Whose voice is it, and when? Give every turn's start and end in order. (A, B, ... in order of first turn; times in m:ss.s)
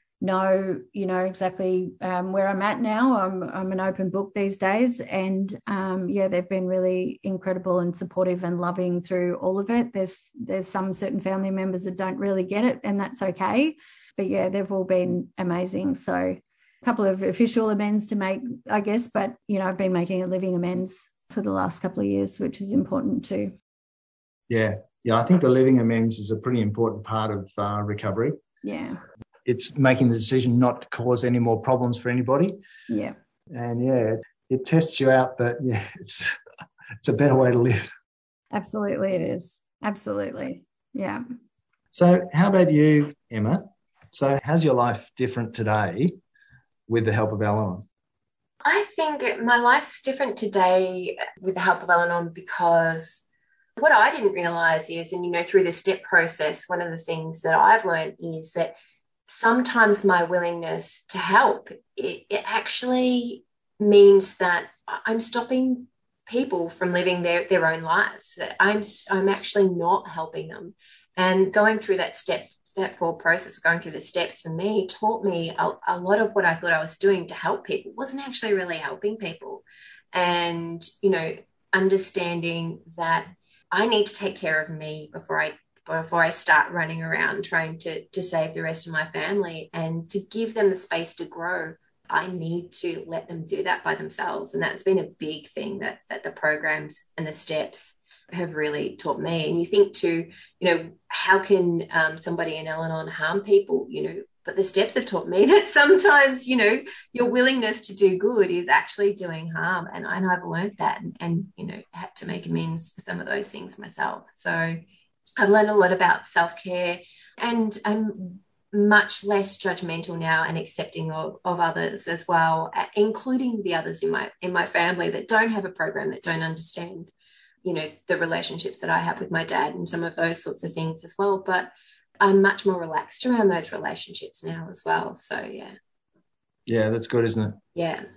0:00.2-0:23.5 A
0:24.5-0:28.4 B
0:28.6-0:29.0 A
0:29.4-0:32.6 B
0:32.9-0:33.2 A
0:33.5-0:36.3 B
0:37.0-0:37.9 B
0:38.5-0:41.2 A
0:41.9-0:46.2 B
0:46.9-0:47.8 B
0:48.6-0:53.2 C
0:53.8-0:58.7 C
0:59.3-1:54.8 C
1:55.4-2:07.1 C
2:07.6-2:15.7 C
2:16.7-2:17.6 B
2:17.7-2:18.0 C